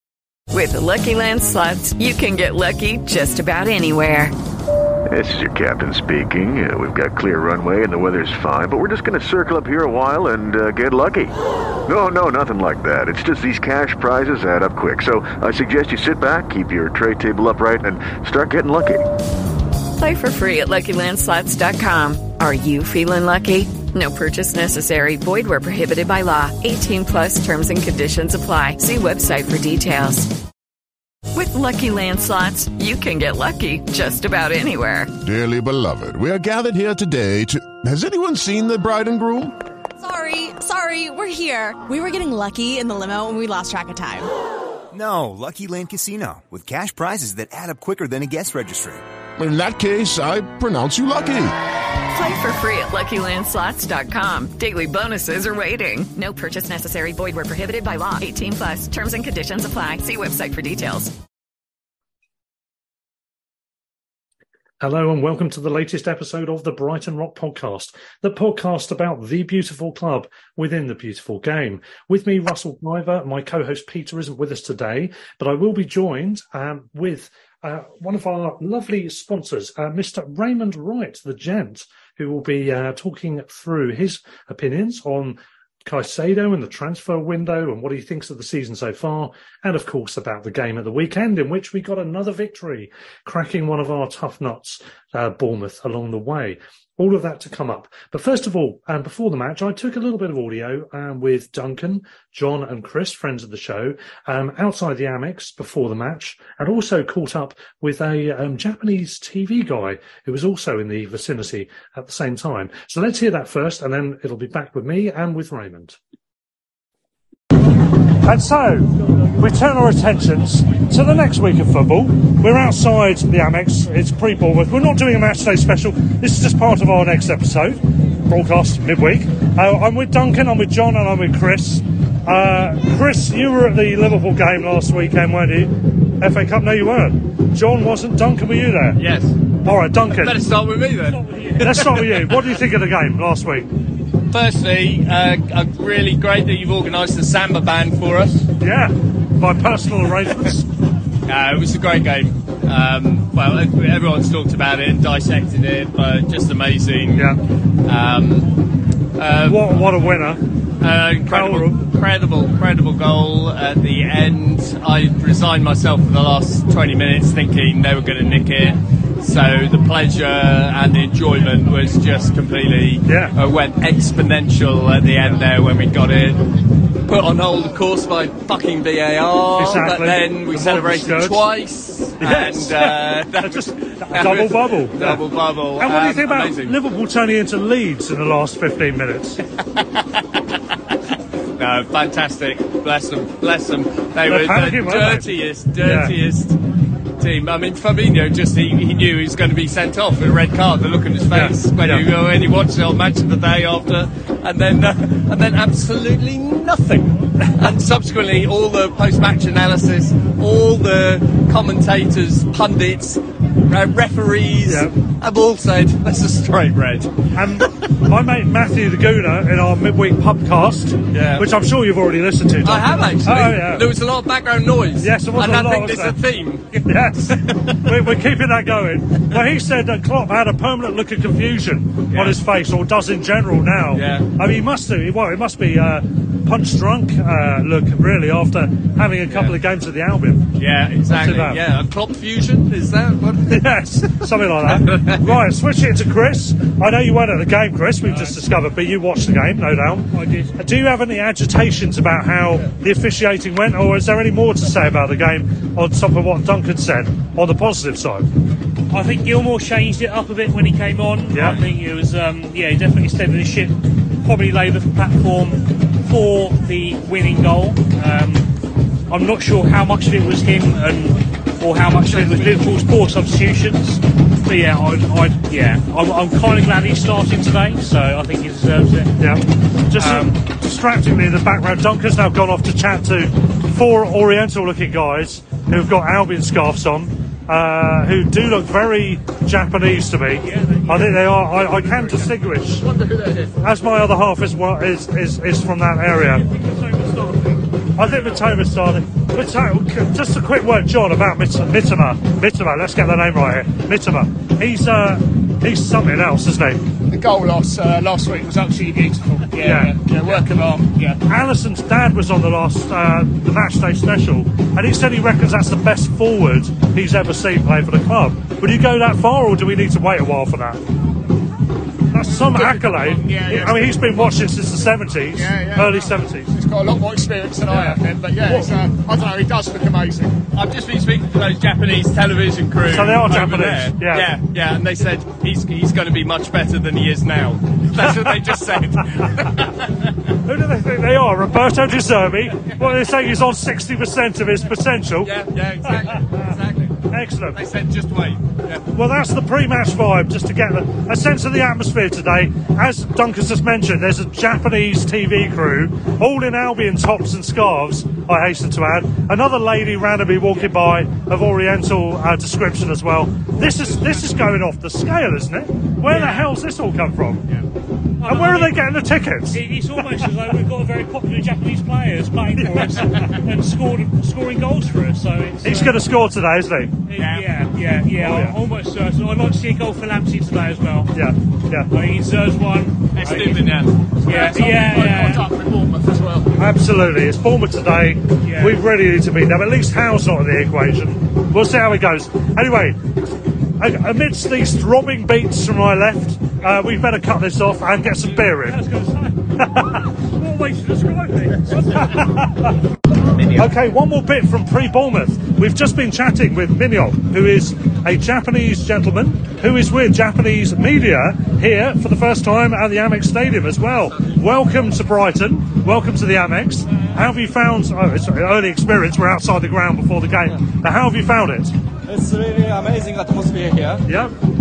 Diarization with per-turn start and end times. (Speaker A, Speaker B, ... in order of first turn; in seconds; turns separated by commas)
Speaker A: 0.5-4.3, Speaker B: 5.1-11.3, Speaker B: 11.8-19.1, Speaker A: 20.0-30.4, Speaker A: 31.3-35.1, Speaker C: 35.2-39.5, Speaker D: 40.0-44.3, Speaker E: 44.9-49.0, Speaker C: 49.4-51.5, Speaker A: 52.1-61.1, Speaker F: 64.8-116.0, Speaker F: 118.2-139.0, Speaker G: 138.9-139.4, Speaker F: 139.6-140.5, Speaker G: 140.1-142.6, Speaker H: 141.1-141.7, Speaker F: 141.6-143.7, Speaker G: 144.3-148.5, Speaker F: 148.6-150.7, Speaker G: 151.2-157.3, Speaker G: 157.8-158.5, Speaker G: 159.2-159.8, Speaker F: 159.4-160.4, Speaker G: 160.8-176.5, Speaker F: 161.2-161.7, Speaker F: 173.1-173.3, Speaker G: 177.0-186.8, Speaker F: 179.6-181.4, Speaker F: 182.2-185.2, Speaker F: 185.8-189.4, Speaker G: 189.8-190.2, Speaker G: 191.6-196.6, Speaker F: 194.2-196.2, Speaker G: 197.2-217.9, Speaker F: 201.3-202.0, Speaker F: 214.7-214.9, Speaker F: 217.3-223.9, Speaker G: 221.1-221.5, Speaker G: 222.6-226.7, Speaker F: 225.0-226.2, Speaker H: 226.7-227.5, Speaker F: 226.9-240.5, Speaker G: 232.1-232.4, Speaker G: 233.9-234.3, Speaker G: 239.3-239.5, Speaker G: 240.5-245.4, Speaker F: 241.1-241.6, Speaker F: 243.5-258.3, Speaker H: 248.1-248.4, Speaker H: 250.1-250.6, Speaker H: 258.9-268.5, Speaker F: 261.3-261.6, Speaker H: 269.1-279.2, Speaker G: 272.1-272.7, Speaker F: 279.2-292.9, Speaker H: 279.9-280.4, Speaker H: 290.4-292.4, Speaker F: 293.6-296.4, Speaker H: 296.4-298.6, Speaker F: 297.9-306.8, Speaker I: 307.1-311.2, Speaker F: 309.6-310.4, Speaker F: 311.2-320.8, Speaker F: 322.1-326.5, Speaker I: 322.3-324.4, Speaker I: 325.3-330.4, Speaker F: 327.7-328.7, Speaker G: 330.5-340.1, Speaker F: 332.9-334.3, Speaker F: 338.0-338.5, Speaker F: 340.4-345.3, Speaker G: 345.2-348.8, Speaker F: 345.9-346.2, Speaker F: 347.1-347.6, Speaker F: 348.9-367.5, Speaker H: 366.0-366.5, Speaker H: 368.2-368.9, Speaker F: 368.2-370.3, Speaker H: 369.5-376.1, Speaker F: 375.6-377.0, Speaker H: 377.1-381.1, Speaker G: 377.1-377.6, Speaker F: 378.2-378.6, Speaker F: 381.1-381.9, Speaker H: 381.9-383.7, Speaker G: 383.1-384.1, Speaker I: 384.2-386.6, Speaker H: 384.3-385.4, Speaker F: 386.6-393.0, Speaker H: 388.4-388.8, Speaker F: 393.8-398.9, Speaker H: 398.3-399.4, Speaker F: 399.6-400.2, Speaker H: 400.3-402.1, Speaker F: 401.7-402.8, Speaker F: 403.5-421.7, Speaker J: 422.1-424.0, Speaker F: 424.1-424.3